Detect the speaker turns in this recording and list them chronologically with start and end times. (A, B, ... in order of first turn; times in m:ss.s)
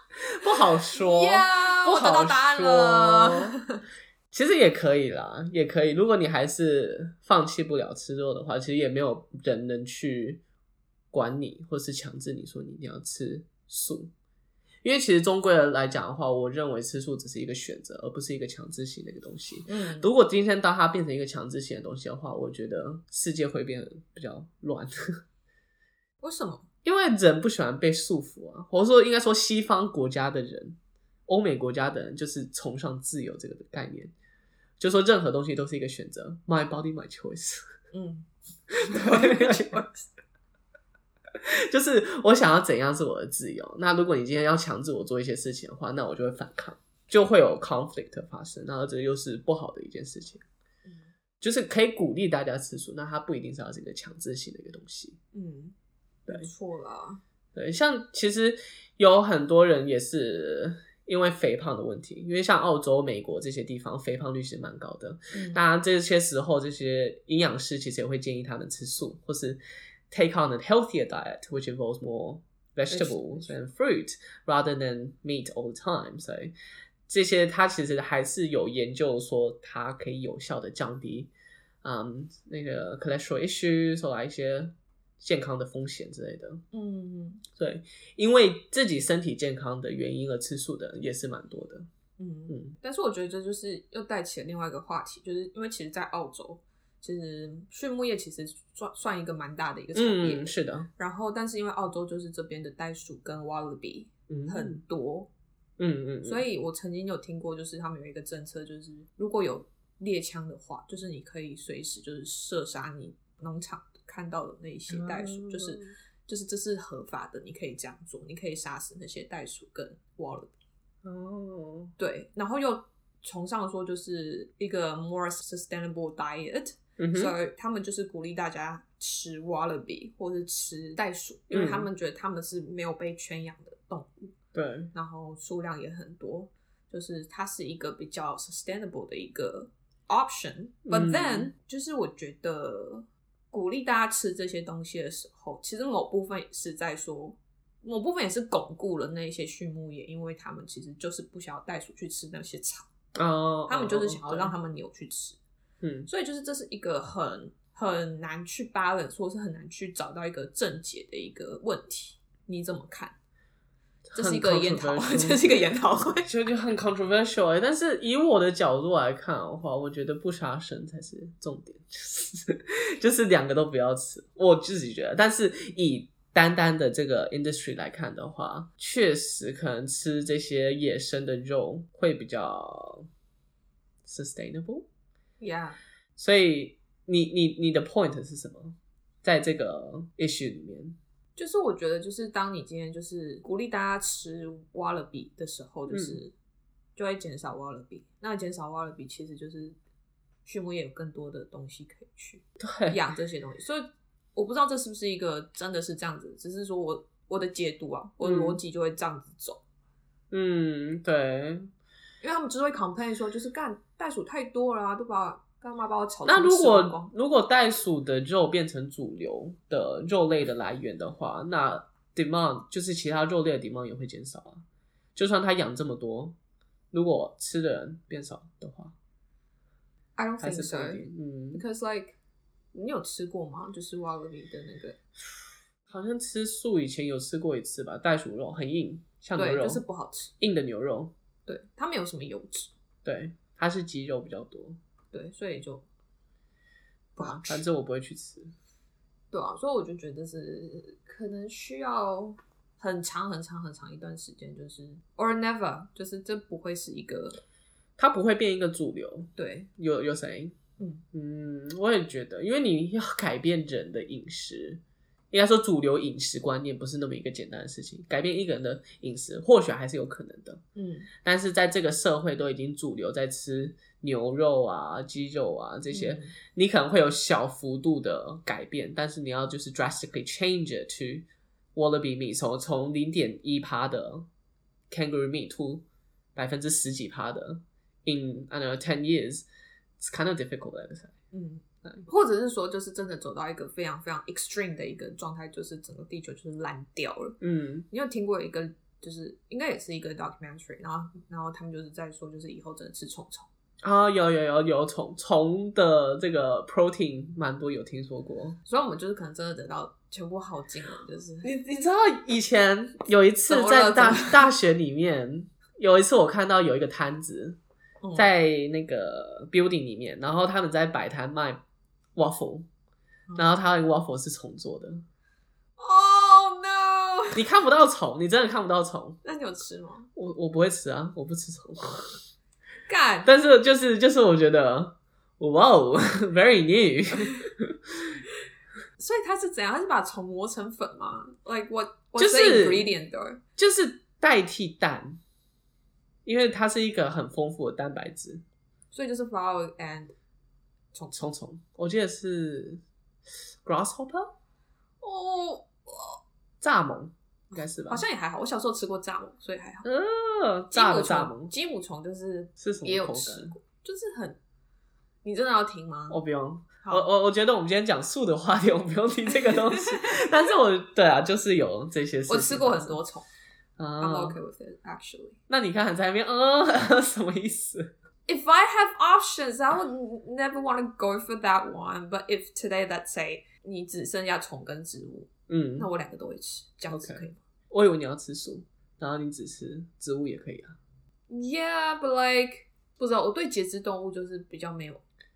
0:00.2-0:03.6 A
0:00.9-0:03.8 B
0:04.3-0:10.4 A
0:11.1-0:14.1 A
0:14.8-0:25.2 A
0:19.6-0:20.1 B
0:26.2-0:26.6 B
0:26.8-0:34.1 A
0:34.8-0:37.7 A
0:37.9-0:38.3 B
0:38.7-0:39.8 A
0:38.8-0:40.1 B
0:41.4-0:50.4 A
0:51.4-0:55.2 A
0:55.3-0:55.7 B
0:56.3-0:57.2 B
0:57.5-1:16.5 A
1:05.3-1:05.6 B
1:12.9-1:13.5 B
1:17.1-1:21.3 A
1:21.8-1:26.6 A
1:26.7-1:27.4 B
1:27.5-1:31.9 A
1:32.2-1:45.3 B
1:32.5-1:32.8 A
1:39.9-1:40.9 A
1:44.3-1:44.8 A
1:45.8-1:46.4 A
1:46.2-2:00.5 B
1:54.9-1:55.9 A
2:01.0-2:01.9 A
2:02.0-2:14.1 B
2:07.0-2:07.3 A
2:11.5-2:11.9 A
2:14.5-2:14.9 A
2:14.9-2:32.9 B
2:20.8-2:21.5 A
2:33.2-2:34.5 A
2:33.7-2:35.4 B
2:35.8-2:36.1 A
2:36.1-2:43.2 B
2:44.1-2:45.4 A
2:44.1-2:46.3 B
2:46.2-3:03.1 A
3:04.0-3:04.8 A
3:05.4-3:05.8 B
3:06.2-3:11.0 A
3:11.4-3:16.3 B
3:15.9-3:16.2 A
3:17.0-3:19.8 B
3:20.4-3:29.6 B
3:22.6-3:23.0 A
3:28.2-3:28.6 A
3:30.3-3:31.7 A
3:32.2-3:37.1 B
3:36.2-3:44.6 A
3:45.1-3:46.4 A
3:46.9-3:48.9 A
3:50.2-3:52.2 B
3:50.4-3:51.6 A
3:52.7-3:55.0 B
3:55.9-3:59.8 A
3:59.4-4:00.3 B
4:00.4-4:01.1 A
4:01.4-4:02.7 B
4:03.0-4:04.8 A
4:05.1-4:05.8 B
4:07.2-4:07.6 B
4:07.2-4:08.5 A
4:09.3-4:17.4 B
4:18.0-4:20.5 A
4:19.4-4:19.7 B
4:20.8-4:21.0 B
4:21.1-4:24.8 A
4:25.3-4:30.6 A
4:30.8-4:31.1 B
4:31.2-4:44.3 A
4:35.9-4:36.3 B
4:44.9-4:45.8 A
4:46.4-4:49.4 A
4:50.0-4:51.2 A
4:51.3-4:57.4 B
4:57.4-4:57.8 A
4:57.9-5:03.5 B
5:03.8-5:08.6 A
5:08.7-5:11.5 B
5:11.4-5:17.6 A
5:13.5-5:14.5 B
5:18.0-5:18.3 B
5:18.1-5:21.6 A
5:22.2-5:22.7 A
5:23.3-5:25.0 A
5:25.8-5:27.4 B
5:27.3-5:29.2 A
5:29.2-5:30.1 B
5:30.1-5:32.2 A
5:32.9-5:33.3 B
5:33.2-5:38.2 A
5:39.0-5:43.4 B
5:42.2-5:42.9 A
5:43.6-5:45.2 A
5:46.2-5:48.4 A
5:48.9-5:50.1 B
5:51.1-5:52.8 A
5:53.6-5:54.3 A
5:55.0-5:56.2 B
5:56.6-5:58.0 A
5:57.9-5:59.8 B
5:59.8-6:01.5 A
6:00.7-6:04.4 B
6:02.6-6:03.5 A
6:05.2-6:06.2 B
6:06.1-6:13.0 A
6:09.4-6:10.2 B
6:12.3-6:13.3 B
6:13.8-6:14.4 A
6:14.0-6:15.4 B
6:15.5-6:17.9 A
6:18.3-6:27.4 B
6:25.5-6:25.9 A
6:26.9-6:30.8 A
6:31.3-6:35.0 B